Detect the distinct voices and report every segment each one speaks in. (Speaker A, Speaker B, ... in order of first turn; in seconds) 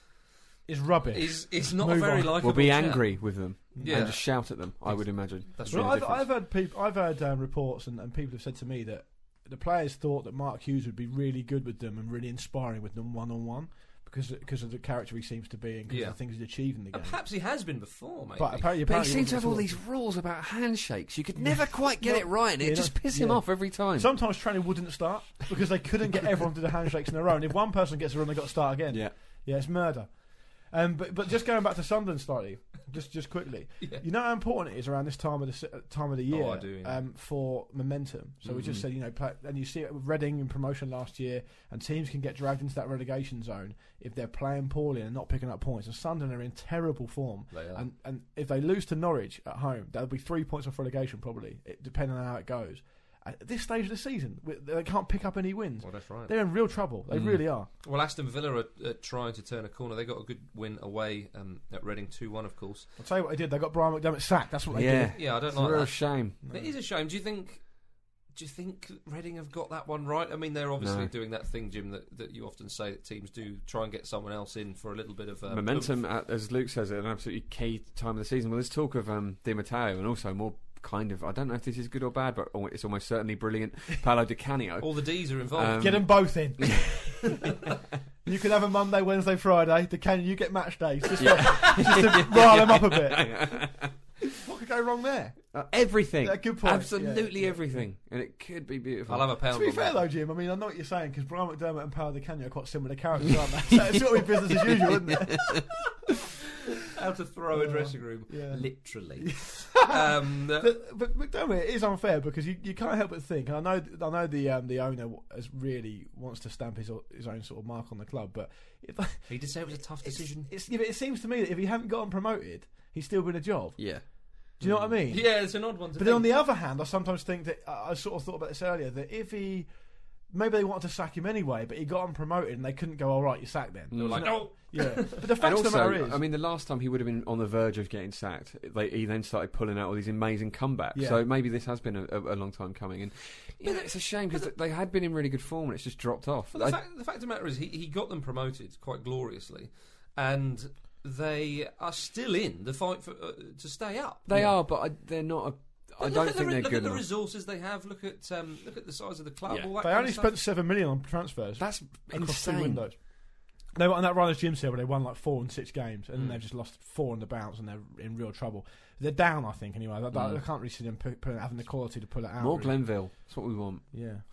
Speaker A: 0.7-2.5, 3.8-4.2, 5.7-17.2, 18.4-19.8, 21.4-57.7, 63.0-65.2, 66.4-66.7, 85.8-87.5, 88.3-93.6, 94.4-95.5, 96.2-97.8, 99.5-105.7, 107.5-124.0, 124.6-129.7, 130.3-136.2, 140.9-141.2, 159.8-163.1, 163.7-173.2, 173.9-174.2
Speaker B: 1.1-6.1, 15.9-16.2, 16.9-18.7, 36.3-37.0, 47.5-47.8, 55.8-56.3, 57.8-62.9, 65.1-67.8, 68.3-76.0, 84.8-85.8, 99.1-100.0, 107.0-110.7, 119.3-120.5, 124.6-126.3, 133.9-135.3, 143.6-144.5, 146.5-154.3, 156.0-160.3
Speaker C: 2.4-6.3, 18.9-24.1, 38.5-38.9, 57.1-57.4, 64.7-66.4, 70.8-71.1, 75.5-84.9, 85.5-87.5, 91.2-93.9, 95.5-99.3, 103.9-105.6, 123.8-124.1, 124.6-125.0, 133.9-134.5, 135.4-146.8, 154.3-157.1, 161.6-162.8, 170.1-170.4, 172.4-173.8